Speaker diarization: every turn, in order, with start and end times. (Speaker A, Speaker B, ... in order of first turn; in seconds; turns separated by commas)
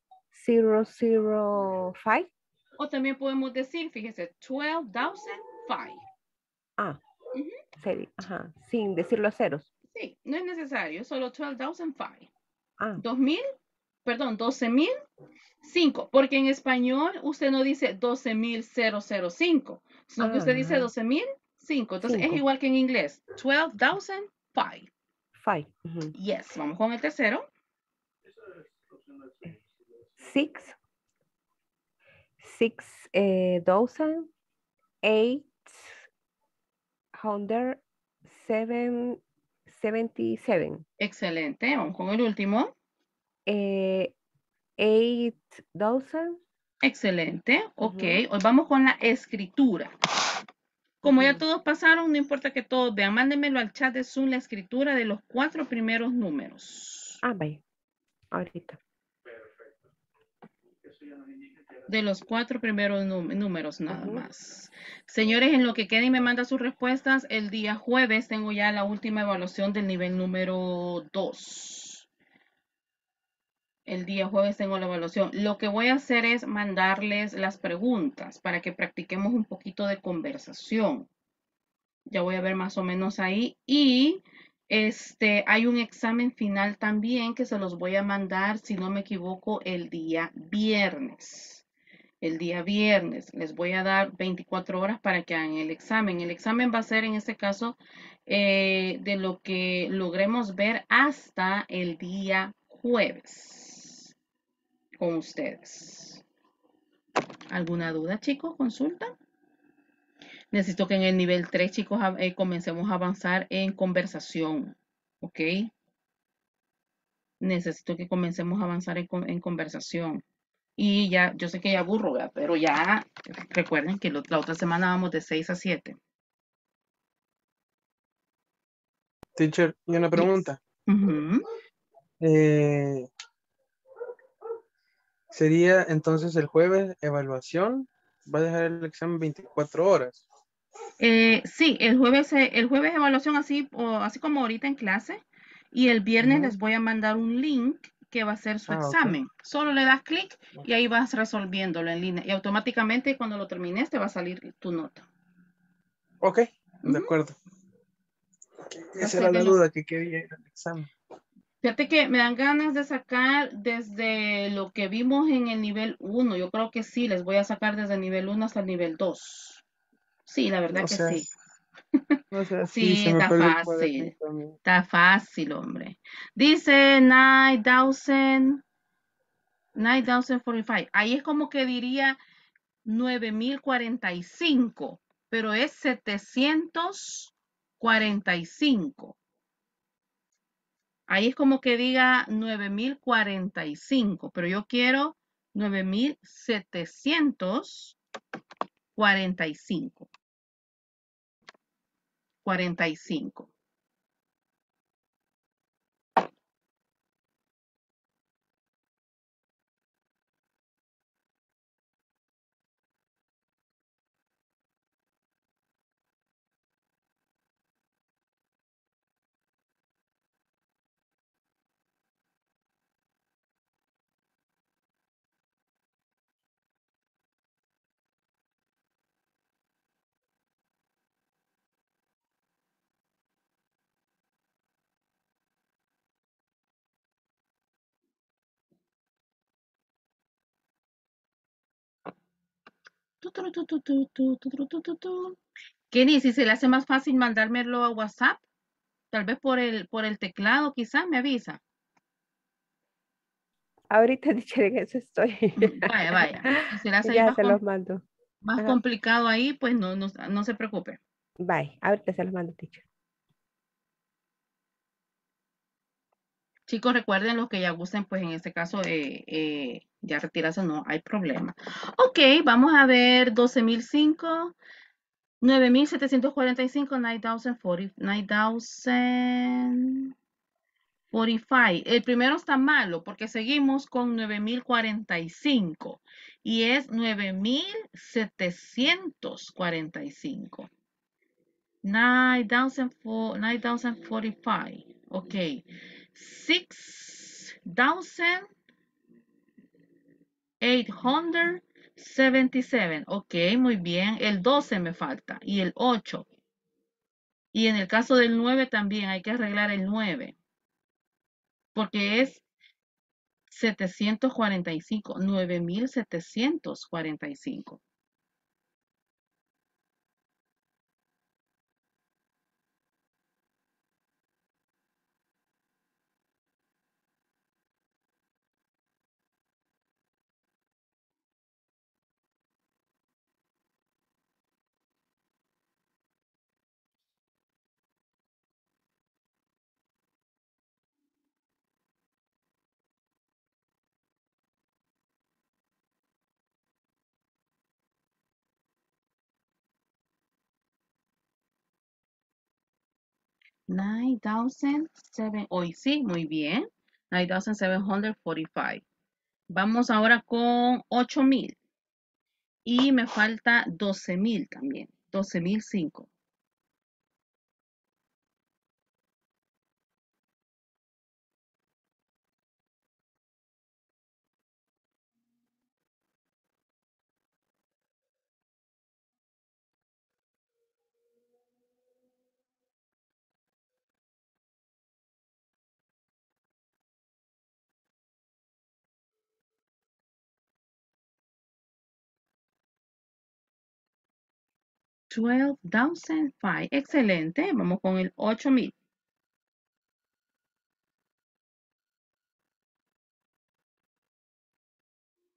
Speaker A: 0.3-2.3, Speaker B: 2.8-6.0, Speaker A: 7.8-9.7, Speaker B: 9.9-12.3, Speaker B: 13.0-13.4, Speaker B: 14.0-14.9, Speaker B: 15.6-24.9, Speaker A: 20.2-20.9, Speaker A: 22.0-22.4, Speaker A: 25.4-26.1, Speaker B: 26.1-27.5, Speaker A: 30.2-30.8, Speaker A: 32.4-34.3, Speaker A: 35.0-36.1, Speaker A: 37.1-40.8, Speaker B: 41.0-42.7, Speaker A: 43.5-44.1, Speaker A: 44.8-46.4, Speaker B: 46.8-49.9, Speaker A: 47.8-48.2, Speaker B: 51.0-57.2, Speaker A: 51.0-51.4, Speaker A: 57.2-57.6, Speaker A: 58.3-58.8, Speaker B: 61.9-72.1, Speaker A: 63.9-64.2, Speaker B: 73.9-81.1, Speaker B: 82.1-91.6, Speaker B: 92.2-104.1, Speaker B: 105.0-106.2, Speaker B: 107.5-109.1, Speaker B: 110.5-115.7, Speaker B: 117.4-120.2, Speaker B: 120.8-126.0, Speaker C: 129.3-130.6, Speaker B: 130.9-131.4, Speaker C: 132.2-133.1, Speaker C: 135.3-140.2, Speaker B: 141.0-145.2, Speaker B: 145.7-155.0, Speaker C: 146.2-146.5, Speaker C: 148.7-149.2, Speaker C: 156.2-157.3, Speaker B: 156.8-157.1, Speaker C: 158.6-160.9, Speaker B: 159.0-159.6, Speaker B: 161.6-169.6, Speaker B: 170.3-171.3, Speaker C: 170.7-171.3, Speaker C: 172.3-174.6, Speaker B: 172.7-174.1, Speaker B: 174.6-178.6, Speaker B: 179.8-182.2, Speaker B: 182.9-189.2, Speaker B: 191.1-198.0, Speaker B: 198.9-200.1, Speaker B: 202.4-203.5, Speaker B: 243.2-245.4, Speaker B: 245.9-248.4, Speaker B: 249.1-251.6, Speaker A: 253.9-258.0, Speaker B: 255.6-257.6, Speaker B: 258.4-261.0, Speaker A: 261.4-262.8, Speaker B: 266.7-274.5, Speaker B: 275.4-280.1, Speaker B: 281.1-290.7, Speaker B: 291.8-295.6, Speaker B: 296.1-298.5, Speaker B: 300.6-306.3, Speaker B: 307.5-310.3, Speaker B: 311.7-312.4, Speaker B: 313.5-317.8, Speaker B: 353.7-358.8, Speaker B: 359.5-361.6, Speaker B: 362.6-366.1, Speaker B: 395.1-398.7